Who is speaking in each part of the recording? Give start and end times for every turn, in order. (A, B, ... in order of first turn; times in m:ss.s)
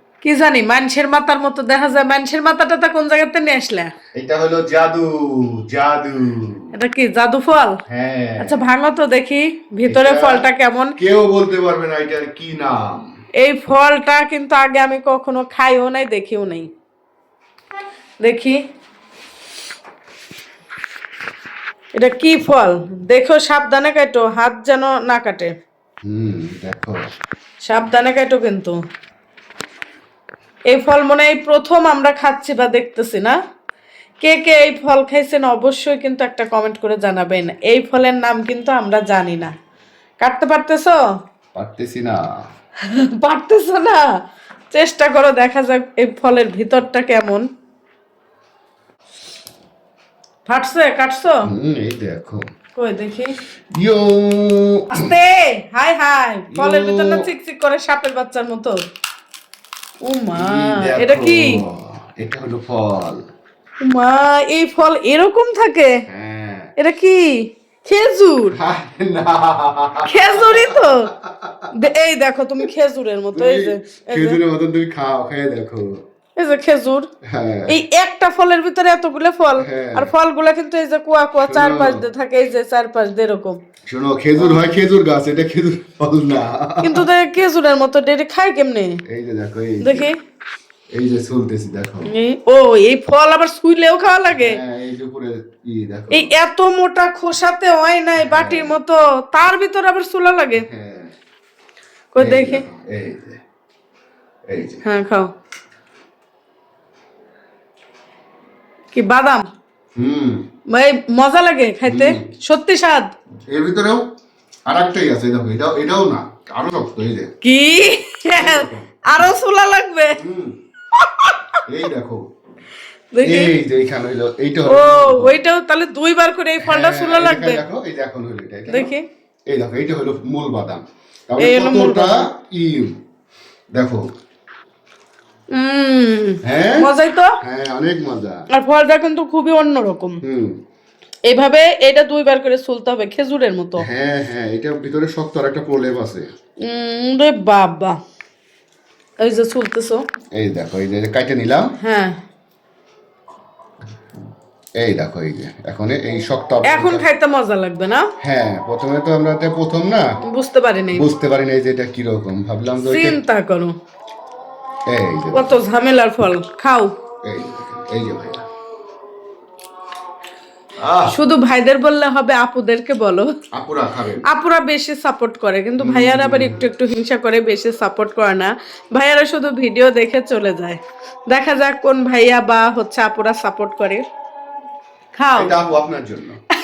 0:00.2-0:03.9 A
0:04.2-0:06.7 B
0:06.8-0:07.8 A
0:07.9-0:08.6 B
0:08.4-0:11.0 A
0:09.9-0:10.4 B
0:11.0-0:13.1 B
0:13.4-0:16.7 A
0:18.2-0:18.6 A
0:22.0-0:25.5 A
0:26.0-0:27.0 B
0:27.6-0:28.8 A
0:30.7-0:33.4 A
0:34.2-0:39.5 A
0:40.2-0:41.0 A
0:41.6-0:42.2 B
0:42.9-0:44.0 A
0:44.7-0:47.4 A
0:50.5-0:51.4 A
0:51.4-0:52.4 B
0:52.8-0:53.4 A
0:53.7-0:55.1 B
0:54.9-0:58.8 A
0:56.5-0:57.3 B
1:00.0-1:01.6 A
1:00.4-1:03.2 B
1:03.8-1:06.0 A
1:06.1-1:06.7 B
1:06.8-1:08.6 A
1:08.5-1:11.7 B
1:10.1-1:11.1 A
1:11.7-1:14.4 A
1:13.3-1:16.0 B
1:16.4-1:17.1 A
1:17.3-1:17.8 B
1:17.7-1:23.6 A
1:19.6-1:20.1 B
1:21.5-1:22.0 B
1:23.9-1:27.0 B
1:26.8-1:29.0 A
1:29.0-1:30.1 B
1:29.8-1:30.2 A
1:30.9-1:32.1 B
1:32.1-1:34.6 A
1:34.3-1:36.3 B
1:36.1-1:40.6 A
1:38.2-1:38.8 B
1:40.6-1:41.1 B
1:42.1-1:42.6 A
1:42.2-1:43.4 B
1:44.5-1:44.8 B
1:44.8-1:45.3 A
1:48.9-1:49.4 A
1:50.0-1:50.4 B
1:50.7-1:53.1 A
1:51.9-1:52.3 B
1:53.5-1:54.0 B
1:54.7-1:57.3 B
1:57.4-2:00.2 A
1:58.4-1:59.2 B
2:00.2-2:00.6 B
2:01.0-2:01.6 A
2:01.7-2:02.2 B
2:03.1-2:03.5 A
2:03.2-2:05.4 B
2:04.7-2:07.6 A
2:06.6-2:08.9 B
2:08.7-2:09.1 A
2:09.5-2:13.0 B
2:11.4-2:12.3 A
2:13.7-2:14.1 B
2:15.5-2:17.4 A
2:16.4-2:16.9 B
2:17.4-2:18.4 B
2:18.5-2:20.2 A
2:20.2-2:20.6 B
2:21.3-2:23.9 A
2:23.8-2:26.3 B
2:26.6-2:28.0 A
2:29.2-2:30.0 A
2:30.4-2:31.7 B
2:31.8-2:32.2 A
2:34.8-2:37.0 B
2:36.6-2:38.1 A
2:38.2-2:40.2 B
2:40.2-2:41.1 A
2:40.9-2:43.2 B
2:42.8-2:43.7 A
2:44.9-2:45.6 B
2:45.3-2:46.9 A
2:47.2-2:48.4 B
2:50.8-2:51.2 B
2:51.1-2:53.3 A
2:53.5-2:54.3 B
2:54.2-3:04.0 A
2:55.8-2:56.6 B
3:05.2-3:05.5 A
3:05.4-3:06.4 B